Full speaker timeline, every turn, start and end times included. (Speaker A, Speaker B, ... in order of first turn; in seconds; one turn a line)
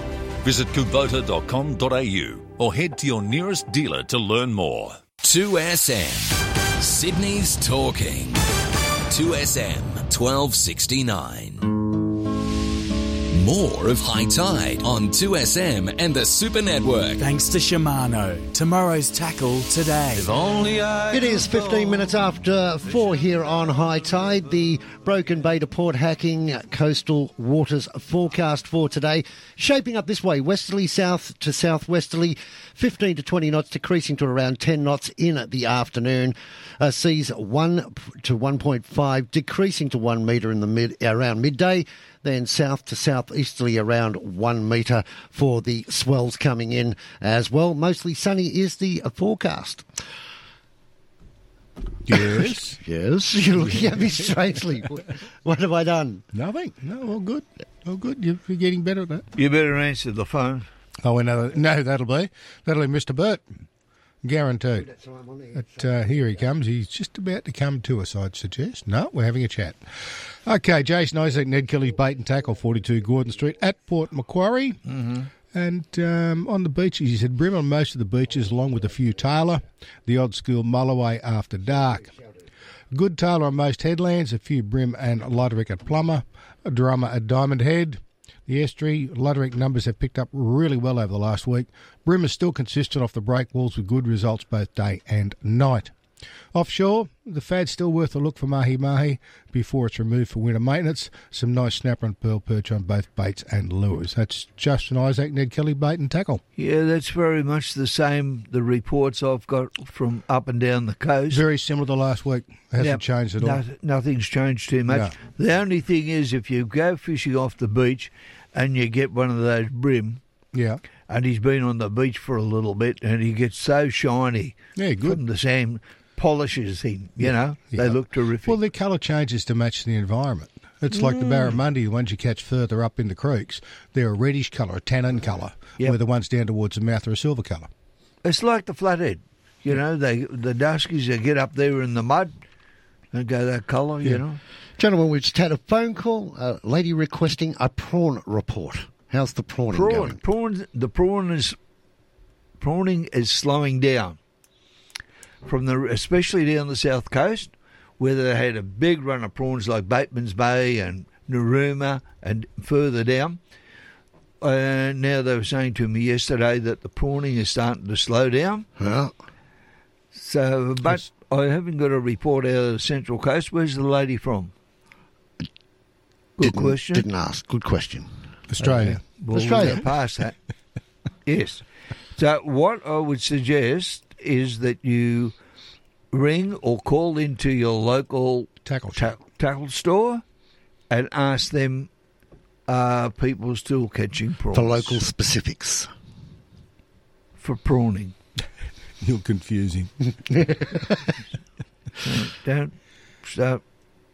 Speaker A: 0.4-5.1
Speaker B: 5.2-8.4
Speaker B: 9.1-11.8
Speaker B: 13.3-17.2
Speaker C: 17.2-20.3
Speaker D: 20.1-22.2
Speaker E: 21.1-49.9
Speaker F: 52.1-52.8
Speaker E: 52.8-56.2
Speaker F: 53.6-54.3
Speaker F: 56.3-59.3
Speaker G: 59.4-60.7
Speaker F: 61.0-63.4
Speaker F: 64.2-64.9
Speaker E: 64.8-65.8
Speaker F: 65.5-69.8
Speaker F: 70.5-74.8
Speaker G: 74.9-75.3
Speaker F: 75.5-82.1
Speaker F: 82.9-95.9
Speaker F: 96.5-106.4
Speaker G: 106.6-111.4
Speaker F: 111.3-113.6
Speaker G: 112.8-120.2
Speaker F: 120.5-120.8
Speaker G: 121.1-128.6
Speaker F: 124.8-125.2
Speaker F: 127.7-137.7
Speaker G: 130.9-131.6
Speaker G: 138.2-142.3
Speaker G: 143.1-144.4
Speaker E: 144.8-150.2
Speaker G: 149.7-151.6
Speaker G: 152.6-154.2
Speaker G: 155.4-163.4
Speaker G: 164.4-168.7
Speaker E: 168.8-169.1
Speaker G: 170.1-174.5
Speaker G: 176.4-177.1
Speaker E: 176.4-178.1
Speaker F: 178.5-179.0
Speaker G: 178.6-180.3
Speaker E: 179.3-179.9
Speaker G: 181.3-181.6
Speaker G: 182.2-185.3
Speaker G: 186.1-190.2
Speaker F: 188.7-189.1
Speaker G: 190.9-191.9
Speaker G: 192.7-195.0
Speaker E: 194.5-195.9
Speaker G: 197.4-198.2
Speaker F: 199.0-199.9
Speaker G: 202.0-202.7
Speaker G: 203.2-203.6